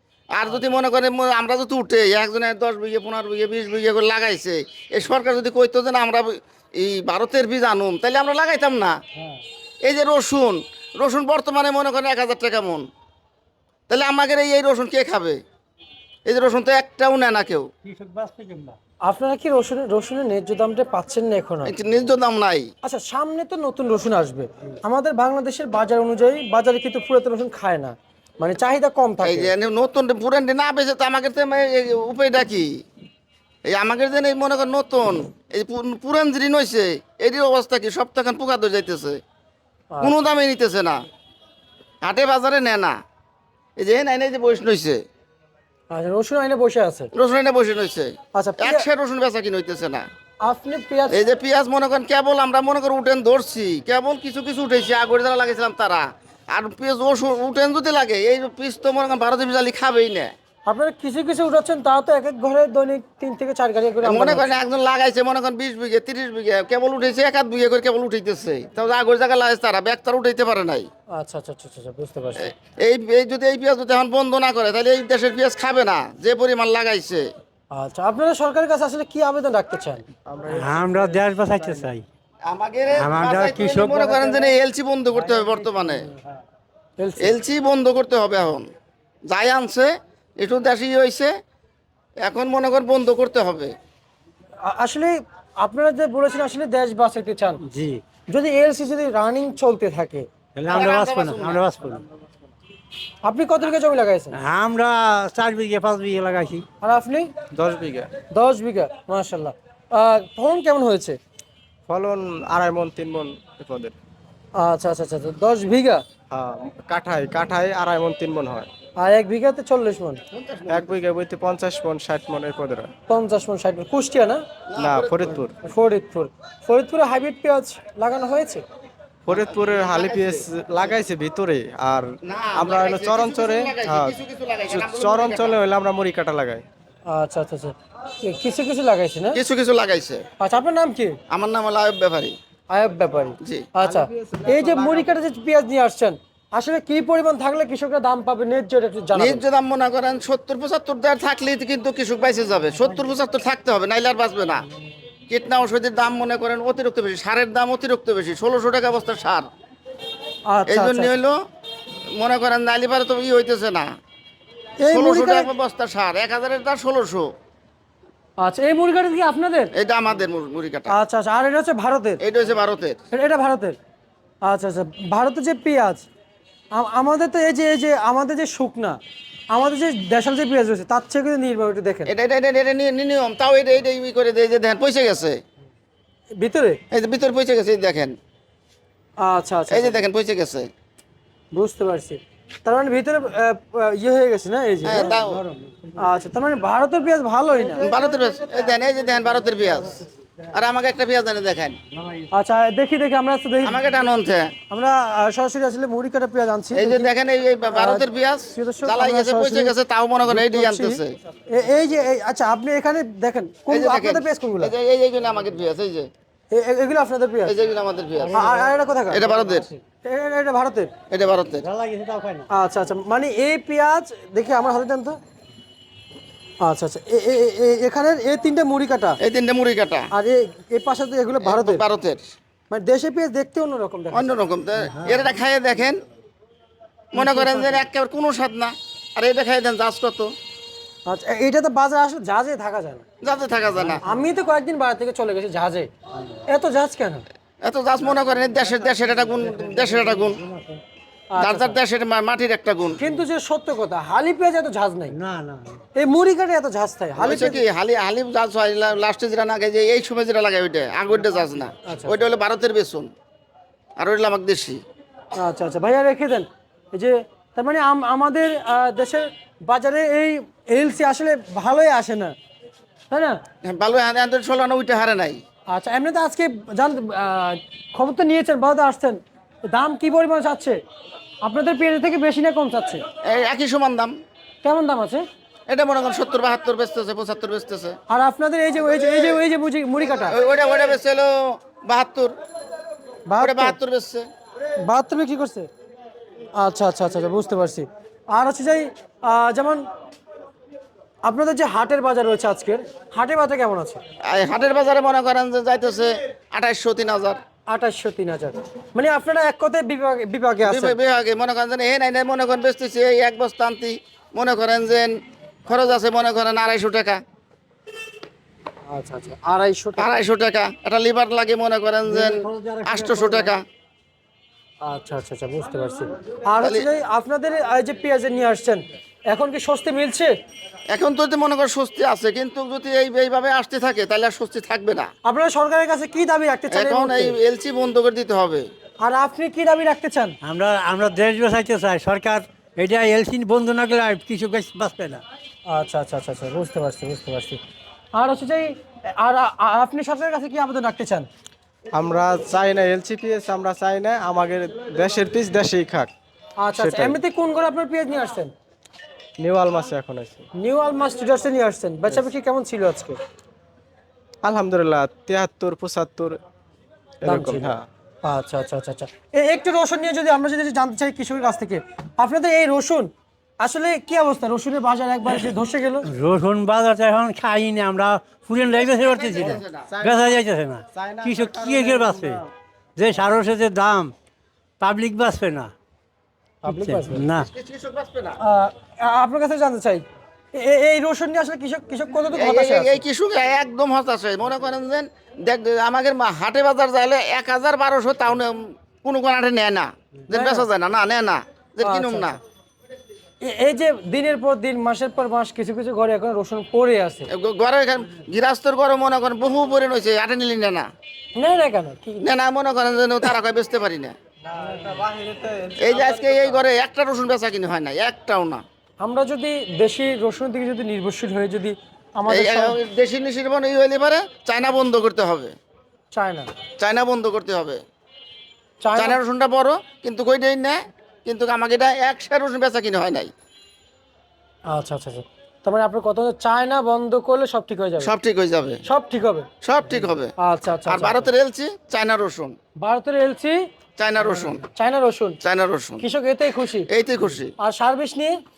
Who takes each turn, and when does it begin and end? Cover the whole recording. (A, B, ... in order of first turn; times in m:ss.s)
0:00.3-0:09.0 A
0:09.8-0:12.8 A
0:13.9-0:15.4 A
0:16.2-0:17.7 A
0:17.8-0:18.8 B
0:19.0-0:21.7 C
0:21.6-0:22.7 A
0:22.8-0:29.5 C
0:29.2-0:32.7 A
0:33.6-0:39.2 A
0:39.9-0:40.2 C
0:40.0-0:41.0 A
0:42.0-0:43.0 A
0:43.8-0:45.0 A
0:45.9-0:47.1 C
0:47.1-0:50.0 A
0:48.3-0:48.8 C
0:50.4-0:51.2 C
0:51.1-1:00.3 A
1:00.7-1:04.5 C
1:04.0-1:10.9 A
1:11.1-1:12.5 C
1:12.5-1:17.2 A
1:17.7-1:20.0 C
1:20.3-1:21.9 D
1:20.5-1:22.0 B
1:22.4-1:26.1 A
1:22.9-1:24.0 B
1:23.9-1:24.5 C
1:25.8-1:26.0 C
1:27.0-1:27.4 C
1:27.2-1:28.7 A
1:29.3-1:31.3 A
1:32.2-1:33.7 A
1:34.6-1:37.6 C
1:37.7-1:38.0 B
1:38.3-1:40.3 C
1:40.6-1:42.0 B
1:40.7-1:41.6 A
1:43.2-1:44.4 C
1:44.4-1:46.6 B
1:46.8-1:47.3 C
1:47.5-1:48.1 D
1:48.3-1:51.2 C
1:51.9-1:54.0 D
1:54.6-1:56.0 C
1:56.3-1:58.7 D
1:59.0-2:00.2 C
2:00.3-2:00.9 A
2:00.7-2:02.9 D
2:03.1-2:04.4 C
2:04.7-2:05.4 A
2:04.8-2:05.5 D
2:05.6-2:08.6 C
2:09.3-2:14.2 D
2:09.3-2:10.4 A
2:12.2-2:15.6 A
2:14.7-2:16.6 D
2:17.0-2:19.4 C
2:19.3-2:20.2 A
2:20.4-2:21.2 C
2:21.3-2:22.4 A
2:22.7-2:29.4 C
2:23.8-2:25.1 D
2:29.1-2:34.6 A
2:35.3-2:39.4 A
2:40.5-2:41.1 C
2:40.7-2:41.4 A
2:42.2-2:43.9 A
2:44.8-2:45.5 C
2:44.9-2:47.3 A
2:48.4-2:49.7 C
2:49.7-2:50.9 A
2:50.9-2:52.2 C
2:52.2-2:53.0 A
2:53.1-2:53.8 C
2:54.4-2:56.0 C
2:56.7-2:59.0 C
2:59.5-3:02.1 C
3:02.1-3:05.4 A
3:06.4-3:06.8 C
3:06.9-3:08.2 A
3:09.2-3:10.0 C
3:09.7-3:10.7 A
3:11.5-3:17.9 C
3:14.8-3:15.4 A
3:17.8-3:21.8 A
3:22.3-3:23.8 C
3:23.6-3:24.5 A
3:24.7-3:27.1 C
3:26.7-3:31.2 A
3:27.7-3:29.7 C
3:30.3-3:34.7 C
3:33.7-3:36.1 A
3:36.5-3:37.5 C
3:37.4-3:38.4 A
3:38.2-3:38.7 B
3:38.3-3:39.3 C
3:39.1-3:39.7 A
3:40.0-3:40.9 C
3:41.1-3:41.6 A
3:41.6-3:42.5 B
3:42.5-3:45.2 C
3:46.6-3:49.2 C
3:49.2-3:50.1 A
3:50.1-3:51.8 C
3:51.4-3:52.2 A
3:52.7-3:54.3 C
3:54.1-3:56.0 A
3:57.1-4:00.3 A
3:57.2-3:57.8 C
4:01.1-4:03.0 C
4:03.2-4:04.0 A
4:04.0-4:05.9 C
4:06.5-4:07.2 C
4:07.6-4:10.4 A
4:09.4-4:10.8 B
4:11.3-4:11.8 C
4:11.4-4:13.0 A
4:13.0-4:15.1 C
4:15.1-4:15.8 B
4:15.9-4:17.6 C
4:17.2-4:23.1 A
4:21.8-4:22.2 C
4:24.0-4:24.8 A
4:25.4-4:32.4 C
4:33.1-4:33.4 C
4:33.6-4:35.4 A
4:35.7-4:40.8 C
4:41.4-4:43.0 C
4:43.2-4:44.1 A
4:44.6-4:45.2 C
4:45.7-4:48.0 A
4:48.1-4:50.3 C
4:50.3-4:52.3 A
4:53.3-4:53.8 C
4:53.4-4:54.2 A
4:54.8-4:55.7 C
4:56.6-4:59.8 C
5:01.2-5:04.0 C
5:04.2-5:07.4 A
5:07.7-5:11.0 C
5:10.6-5:15.1 A
5:15.7-5:17.2 A
5:18.9-5:20.2 C
5:20.0-5:23.6 A
5:22.1-5:23.5 B
5:24.8-5:30.3 C
5:30.9-5:35.1 A
5:35.2-5:37.4 C
5:36.7-5:38.6 A
5:39.0-5:40.4 C
5:40.4-5:45.2 B
5:45.7-5:47.6 C
5:48.1-5:51.3 C
5:51.9-5:56.1 D
5:56.6-5:58.5 C
5:56.8-5:57.2 D
5:59.4-6:00.4 D
6:00.6-6:03.2 C
6:04.4-6:06.4 D
6:07.2-6:07.8 D
6:07.2-6:16.1 C
6:16.1-6:22.4 B
6:19.0-6:19.9 A
6:19.9-6:20.4 D
6:20.9-6:22.5 D
6:23.0-6:24.1 B
6:24.8-6:25.7 B
6:26.6-6:27.3 C
6:26.7-6:27.5 B
6:27.5-6:28.4 A
6:28.4-6:33.0 C
6:32.3-6:42.4 A
6:40.3-6:40.6 C
6:41.8-6:42.4 C
6:43.4-6:47.3 C
6:47.3-6:50.9 A
6:51.4-6:52.3 C
6:52.2-6:54.1 A
6:54.4-6:56.6 D
6:55.8-6:58.6 A
6:59.0-7:02.8 C
7:02.3-7:05.5 A
7:06.1-7:06.5 C
7:06.8-7:07.8 A
7:08.8-7:09.2 C
7:09.0-7:13.3 A
7:14.7-7:18.1 C
7:18.0-7:18.8 A
7:18.8-7:19.5 C
7:19.6-7:20.3 A
7:20.4-7:21.3 C
7:20.9-7:22.6 A
7:22.8-7:23.7 C
7:24.0-7:24.6 A
7:24.7-7:25.4 C
7:25.4-7:26.0 A
7:26.0-7:26.9 C
7:26.9-7:27.5 A
7:27.6-7:28.4 C